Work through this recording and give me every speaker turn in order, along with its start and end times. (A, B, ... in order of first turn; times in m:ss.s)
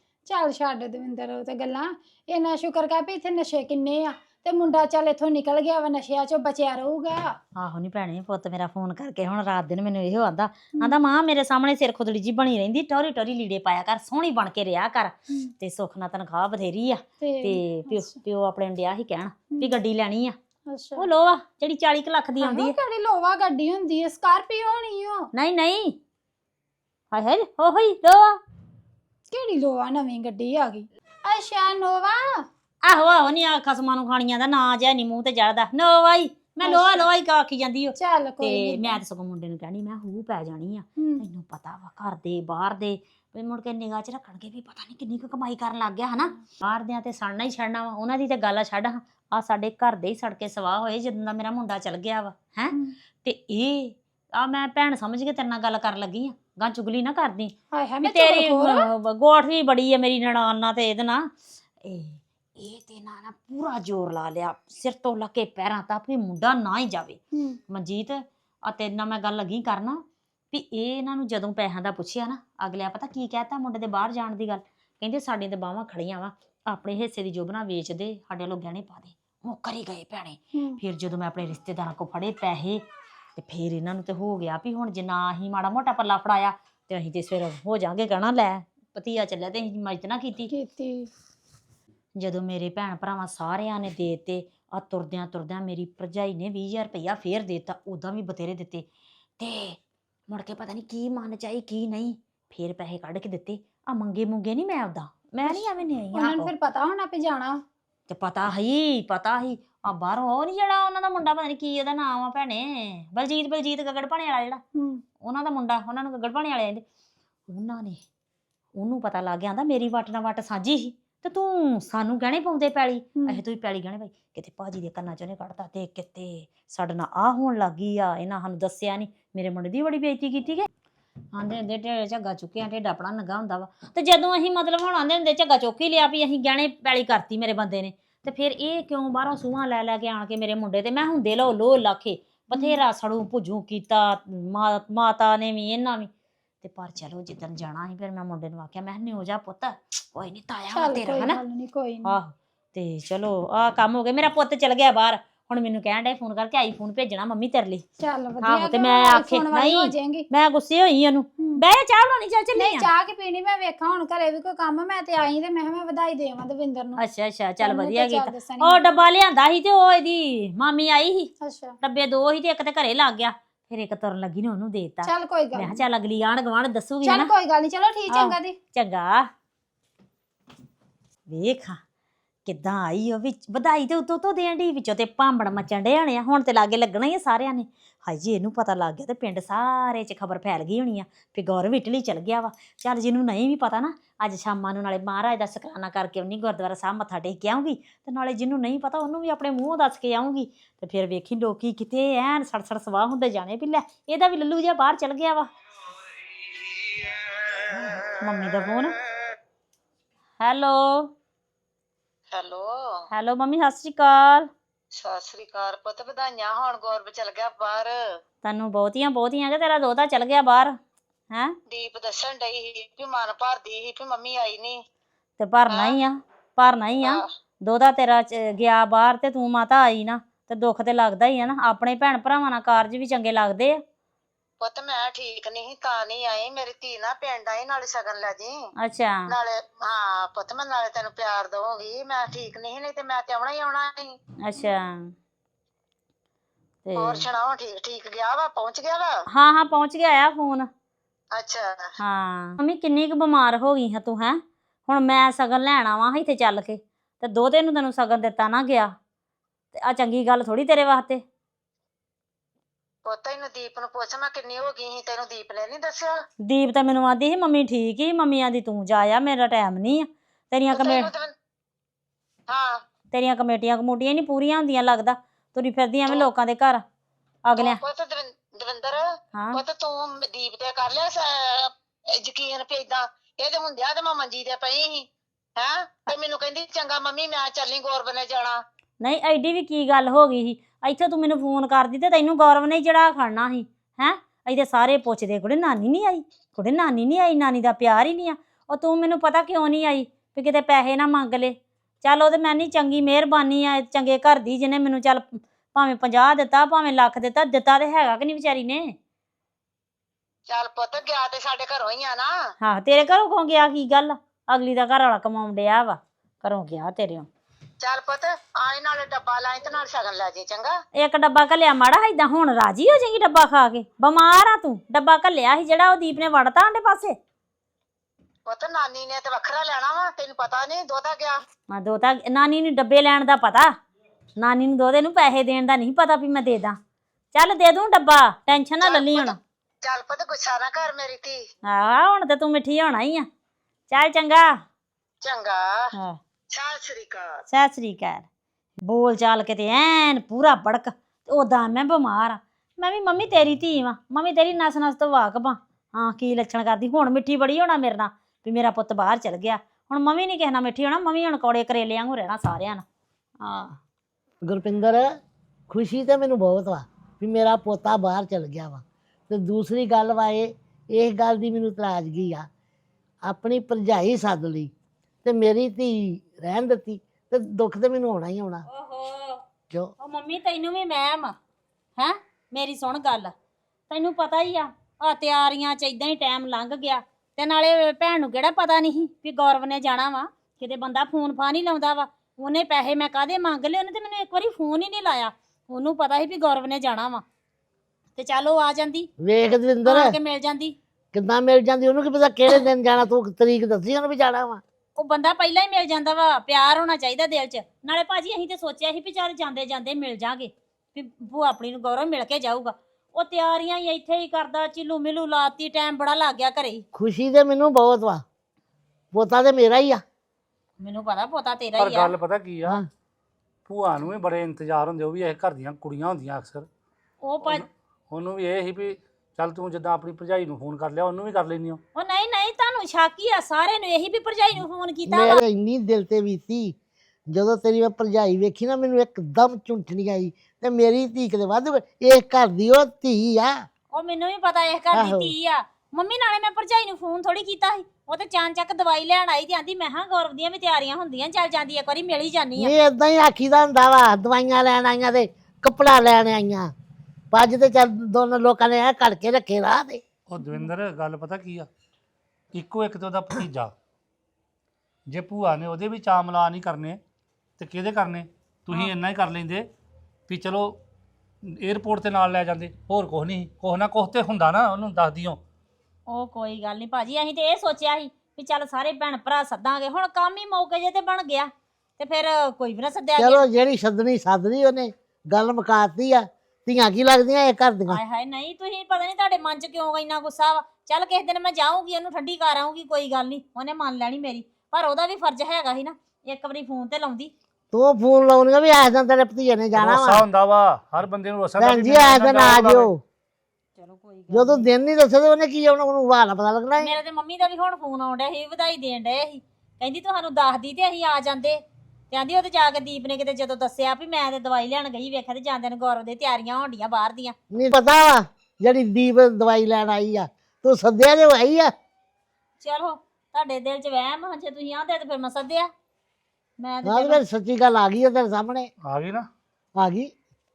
0:00.2-0:07.3 A
0:07.6-0:20.4 B
0:17.2-0:18.2 A
0:20.7-0:21.1 A
0:21.0-0:22.7 B
0:22.4-0:25.3 A
0:25.3-0:26.0 B
0:27.1-0:28.4 B
0:29.3-0:32.3 A
0:32.8-0:57.5 B
0:36.6-0:37.1 A
0:37.9-0:39.0 A
0:41.0-0:41.2 A
0:57.7-0:58.9 A
0:58.0-1:01.3 B
1:01.8-1:22.8 B
1:07.3-1:07.6 A
1:20.5-1:20.8 A
1:23.4-1:30.5 B
1:30.5-1:31.1 A
1:32.2-1:38.8 B
1:39.4-1:46.5 B
1:45.4-1:47.6 A
1:48.1-1:54.6 B
1:54.7-1:55.0 A
1:55.2-1:56.8 B
1:57.5-1:58.0 B
1:58.8-2:10.7 B
2:11.3-2:26.1 B
2:22.5-2:22.8 A
2:26.6-2:31.4 B
2:30.7-2:32.2 A
2:32.0-2:37.8 B
2:38.0-2:40.3 A
2:38.4-2:42.9 B
2:41.4-2:41.6 A
2:42.5-2:47.0 A
2:47.0-2:51.3 B
2:47.6-2:48.9 A
2:51.4-2:51.8 A
2:51.8-2:57.3 B
2:55.0-2:55.8 A
2:57.0-2:58.6 A
2:58.1-2:59.3 B
3:01.3-3:01.8 B
3:02.4-3:25.5 B
3:26.6-3:27.1 C
3:28.0-3:28.9 B
3:30.4-3:31.1 B
3:32.3-3:32.7 C
3:33.1-3:34.5 B
3:35.0-3:37.9 C
3:38.4-3:40.8 B
3:41.7-3:44.8 C
3:45.4-3:53.8 B
3:45.7-3:46.0 C
3:54.6-3:58.5 C
3:58.8-3:59.3 B
3:59.3-4:04.1 C
4:04.4-4:05.1 B
4:06.8-4:07.3 B
4:07.0-4:09.1 C
4:09.3-4:10.7 B
4:11.3-4:11.7 C
4:12.0-4:18.9 B
4:19.7-4:21.2 B
4:23.0-4:26.1 C
4:26.4-4:31.1 B
4:30.7-4:31.3 C
4:32.5-4:32.8 C
4:33.1-4:36.8 B
4:37.4-4:37.8 B
4:37.6-4:39.0 C
4:39.3-4:39.6 B
4:39.5-4:48.6 C
4:49.0-5:09.0 B
5:10.5-5:12.3 C
5:12.6-5:17.3 B
5:17.8-5:20.7 C
5:21.0-5:27.2 B
5:28.5-5:31.4 C
5:31.7-5:33.7 B
5:34.4-5:36.8 B
5:37.3-5:39.4 B
5:38.8-5:41.4 C
5:41.6-5:43.3 B
5:43.9-5:44.6 B
5:45.2-5:45.9 C
5:46.5-5:47.3 C
5:47.5-5:48.2 B
5:48.8-6:02.8 B
6:03.4-6:03.8 B
6:04.4-6:05.1 D
6:05.7-6:12.5 D
6:13.2-6:14.7 D
6:15.2-6:18.6 D
6:18.7-6:19.4 B
6:20.0-6:21.4 B
6:22.0-6:23.3 B
6:23.9-6:37.2 B
6:38.2-6:39.1 B
6:39.2-6:40.2 D
6:39.8-6:40.7 B
6:41.1-6:44.6 D
6:45.0-6:56.8 B
6:56.9-6:58.2 D
6:59.1-7:00.0 D
7:00.8-7:02.1 B
7:01.8-7:02.8 E
7:03.7-7:06.7 E
7:07.2-7:07.6 B
7:07.4-7:11.8 E
7:11.9-7:15.4 B
7:15.1-7:16.7 D
7:17.3-7:23.6 D
7:23.9-7:32.7 B
7:24.9-7:25.3 D
7:32.6-7:36.7 D
7:37.3-7:40.0 D
7:40.3-7:41.7 E
7:42.5-7:43.7 E
7:45.1-7:47.0 E
7:47.6-7:49.6 E
7:50.3-7:50.8 E
7:51.5-7:55.4 E
7:56.1-8:03.4 B
8:03.2-8:08.0 D
8:07.9-8:17.3 B
8:17.7-8:20.2 D
8:19.7-8:22.9 E
8:21.6-8:23.0 D
8:23.8-8:24.7 B
8:24.3-8:26.9 D
8:26.8-8:37.4 B
8:37.5-8:41.7 D
8:42.6-8:45.7 B
8:46.6-8:47.2 B
8:46.8-8:48.7 D
8:48.8-8:49.3 E
8:49.8-8:50.1 D